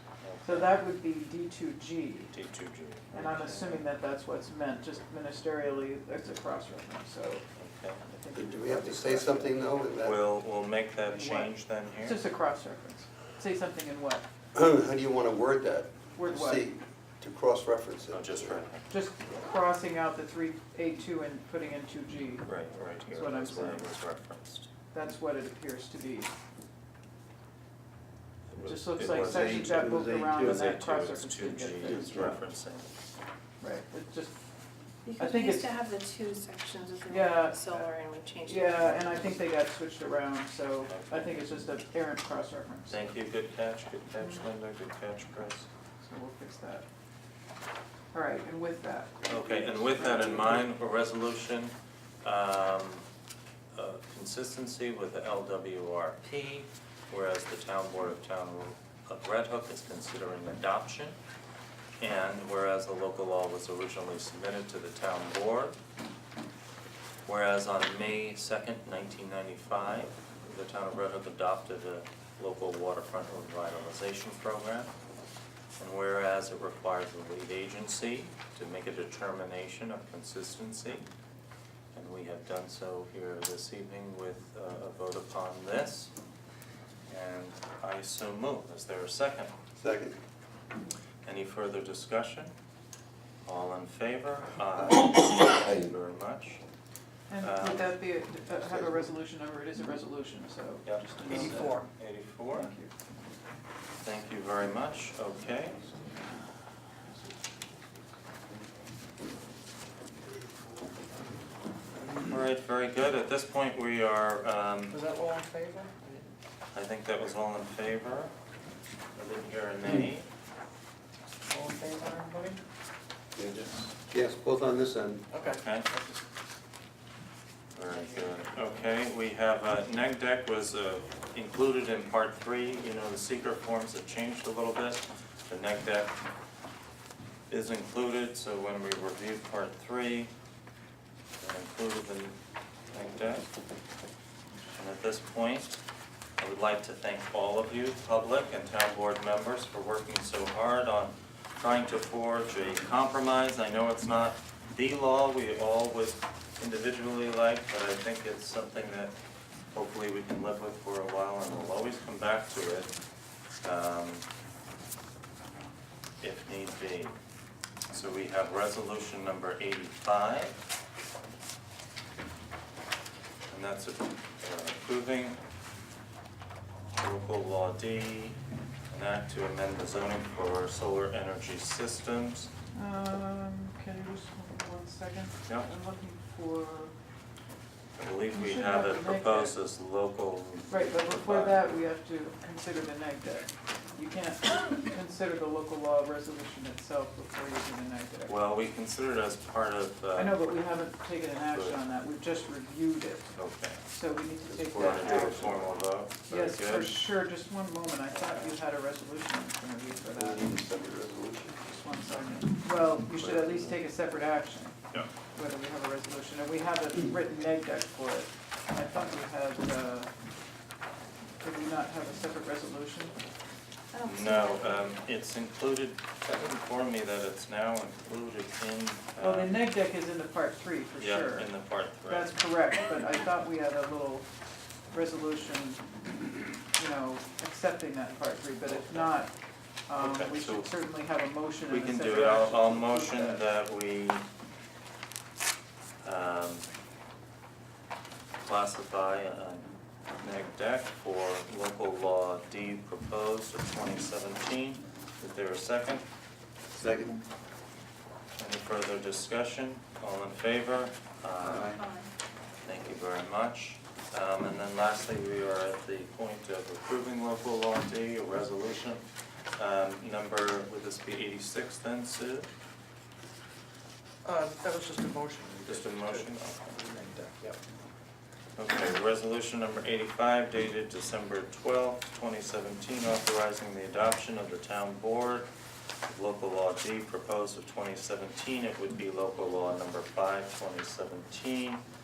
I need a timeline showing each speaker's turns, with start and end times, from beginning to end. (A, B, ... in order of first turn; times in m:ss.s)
0:00.2-0:00.8 A
0:00.4-0:02.3 B
0:02.3-0:03.8 A
0:03.1-0:07.4 B
0:07.6-0:08.1 A
0:08.1-0:09.3 B
0:08.3-0:10.2 C
0:08.8-0:12.2 A
0:11.1-0:14.2 B
0:14.5-0:18.6 C
0:16.2-0:16.7 B
0:18.1-0:18.9 A
0:18.9-0:22.5 B
0:22.4-0:24.7 A
0:23.1-0:23.9 B
0:24.9-0:26.3 B
0:28.5-0:32.9 A
0:28.6-0:32.1 B
0:29.0-0:30.7 C
0:31.9-0:32.4 C
0:33.6-0:34.4 B
0:35.1-0:39.1 D
0:35.2-0:35.7 B
0:37.1-0:37.9 B
0:38.5-0:43.0 B
0:40.9-0:41.4 A
0:42.9-0:45.7 A
0:46.0-0:46.8 B
0:48.1-0:50.7 B
0:49.3-0:53.0 A
0:53.8-1:01.2 A
1:02.0-1:05.8 A
1:07.3-1:14.9 A
1:15.8-1:21.1 A
1:21.9-1:26.1 A
1:27.1-1:29.5 A
1:29.8-1:30.2 C
1:31.2-1:32.5 A
1:33.4-1:36.6 A
1:37.3-1:41.8 B
1:37.4-1:38.0 A
1:38.7-1:39.0 C
1:40.8-1:42.7 A
1:41.3-1:41.8 E
1:42.5-1:42.9 B
1:44.0-1:45.8 A
1:52.0-1:55.0 A
1:54.9-1:56.3 E
1:56.7-1:58.3 A
1:59.1-2:00.3 A
2:01.5-2:02.6 E
2:03.4-2:05.3 C
2:05.3-2:06.2 E
2:05.4-2:05.9 A
2:07.7-2:16.2 A
2:17.5-2:20.3 A
2:21.4-2:22.4 A
2:22.9-2:23.5 A
2:24.7-2:25.8 A
2:26.4-2:39.1 A
2:39.7-2:42.9 A
2:43.6-2:44.2 A
2:46.2-2:47.2 A
2:47.9-2:50.6 A
2:53.5-2:55.4 A
2:57.0-2:58.4 A
2:58.9-3:02.5 A
3:02.8-3:06.9 B
3:08.0-3:11.6 A
3:08.3-3:09.6 B
3:10.7-3:18.3 B
3:18.3-3:20.5 A
3:20.2-3:30.5 B
3:21.5-3:21.8 A
3:23.4-3:23.9 A
3:24.6-3:27.0 A
3:24.7-3:25.3 C
3:28.1-3:28.6 A
3:30.2-3:31.7 C
3:31.7-3:34.8 B
3:32.1-3:32.4 A
3:33.2-3:33.5 A
3:35.3-3:40.1 B
3:41.4-3:43.2 B
3:43.9-3:44.6 D
3:44.0-3:49.6 A
3:44.1-3:44.9 B
3:49.2-3:54.3 B
3:51.0-3:52.3 A
3:54.9-3:55.9 B
3:56.8-3:59.3 B
3:59.9-4:03.4 B
4:00.0-4:00.7 A
4:01.7-4:04.2 A
4:06.0-4:06.7 A
4:08.4-4:16.0 A
4:16.8-4:17.1 C
4:18.4-4:21.8 A
4:21.4-4:21.8 C
4:21.8-4:22.1 D
4:22.6-4:29.0 A
4:29.6-4:32.5 A
4:34.2-4:36.2 E
4:35.7-4:36.8 A
4:36.8-4:37.5 E
4:38.6-4:45.5 A
4:46.1-4:51.8 A